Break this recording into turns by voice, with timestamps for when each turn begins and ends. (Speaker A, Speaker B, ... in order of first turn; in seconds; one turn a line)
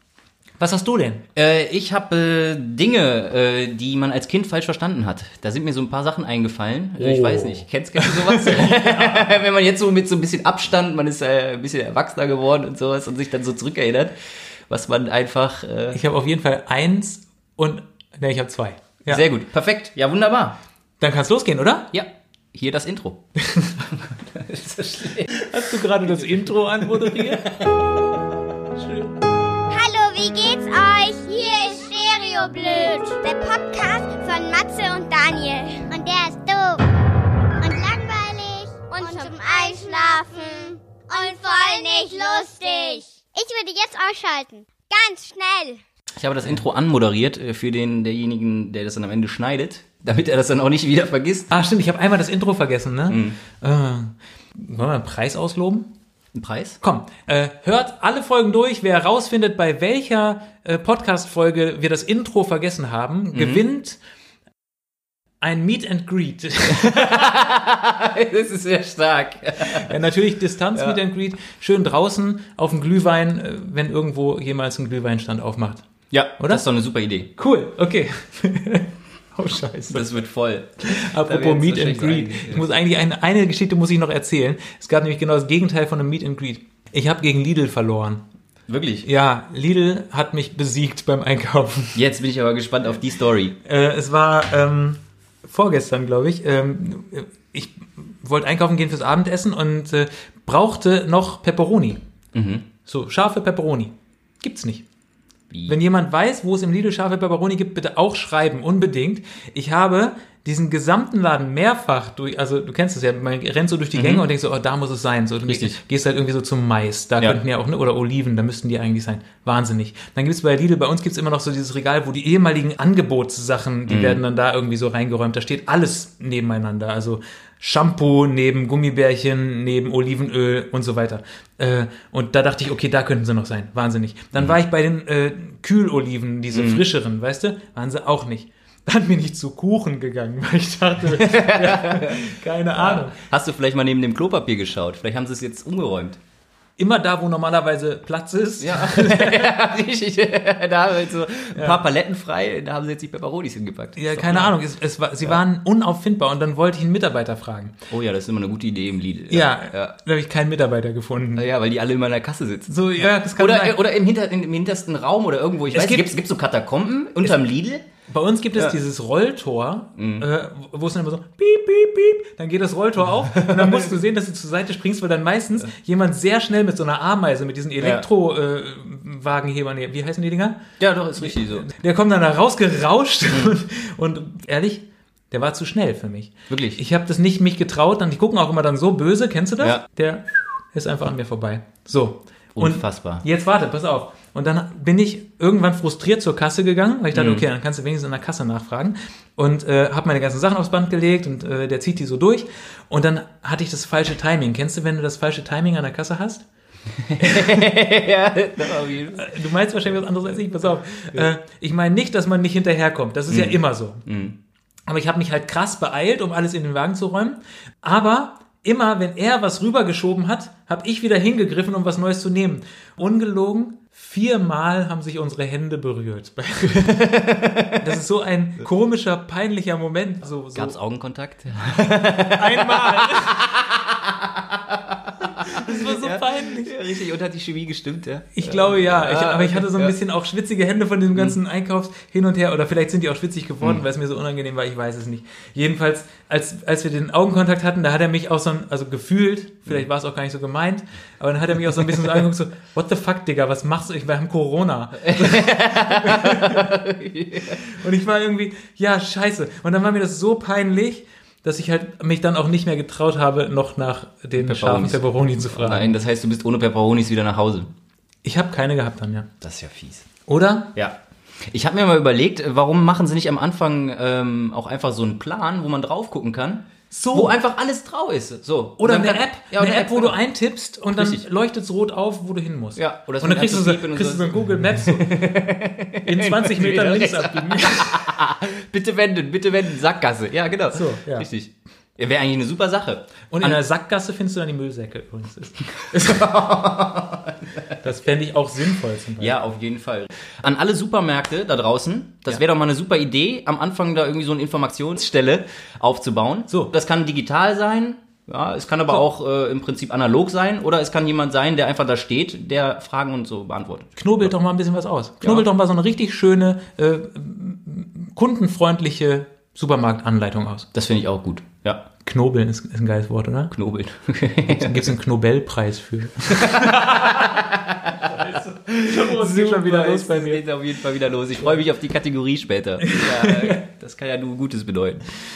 Speaker A: 0.6-1.2
Speaker B: 1.4-14.1
Speaker A: 7.0-9.3
Speaker B: 14.7-16.0
Speaker A: 15.9-19.2
Speaker B: 19.1-20.6
Speaker A: 21.0-21.9
Speaker B: 21.9-23.2
Speaker A: 23.4-23.8
Speaker B: 23.9-27.8
Speaker A: 25.3-27.5
Speaker A: 28.7-29.1
Speaker C: 29.7-36.8
Speaker C: 37.6-45.8
Speaker B: 46.1-51.6
Speaker A: 51.5-55.9
Speaker B: 53.1-53.4
Speaker B: 56.3-56.8
Speaker A: 56.8-64.0
Speaker B: 63.3-63.6
Speaker A: 65.4-67.4
Speaker B: 66.7-69.9
Speaker A: 69.6-75.8
Speaker B: 70.7-71.0
Speaker B: 76.1-77.3
Speaker A: 77.3-80.1
Speaker B: 79.9-82.7
Speaker A: 80.8-88.2
Speaker B: 88.7-89.0
Speaker A: 89.0-92.0
Speaker B: 91.9-93.5
Speaker A: 93.6-102.0
Speaker B: 102.3-102.7
Speaker A: 102.8-104.8
Speaker B: 105.5-105.8
Speaker A: 105.7-143.2
Speaker B: 113.9-114.2
Speaker B: 115.5-115.8
Speaker B: 123.9-124.2
Speaker B: 136.5-136.8
Speaker B: 141.1-146.2
Speaker A: 146.8-149.5
Speaker B: 148.6-154.6
Speaker A: 151.5-151.8
Speaker A: 153.9-157.8
Speaker B: 157.9-159.9
Speaker A: 159.3-161.4
Speaker B: 161.3-167.8
Speaker A: 162.7-163.8
Speaker A: 165.7-166.1
Speaker A: 168.1-180.6
Speaker B: 170.0-170.2
Speaker B: 173.3-173.9
Speaker B: 177.8-178.1
Speaker B: 180.8-181.7
Speaker A: 181.2-206.4
Speaker B: 183.3-183.5
Speaker B: 186.5-186.8
Speaker B: 192.6-193.2
Speaker B: 197.1-197.4
Speaker B: 207.0-209.3
Speaker A: 207.2-207.7
Speaker A: 209.1-214.0
Speaker B: 213.3-214.3
Speaker A: 214.9-227.1
Speaker B: 226.8-227.8
Speaker A: 227.7-230.8
Speaker B: 230.5-239.9
Speaker A: 232.0-233.4
Speaker A: 235.3-236.7
Speaker A: 238.3-256.7
Speaker B: 255.0-257.6
Speaker A: 257.4-265.9
Speaker B: 264.4-267.7
Speaker A: 268.2-269.3
Speaker B: 269.4-270.1
Speaker A: 270.2-270.7
Speaker B: 270.7-280.2
Speaker A: 276.9-277.4
Speaker A: 278.8-285.2
Speaker B: 280.9-281.2
Speaker B: 282.8-293.6
Speaker A: 286.0-288.2
Speaker A: 290.7-291.3
Speaker A: 293.3-296.4
Speaker B: 295.9-297.7
Speaker A: 297.8-299.4
Speaker B: 299.2-314.3
Speaker A: 314.0-320.7
Speaker B: 320.7-321.9
Speaker A: 322.0-323.5
Speaker B: 323.5-324.9
Speaker A: 324.4-327.4
Speaker B: 326.3-335.1
Speaker A: 328.0-330.4
Speaker A: 332.8-333.6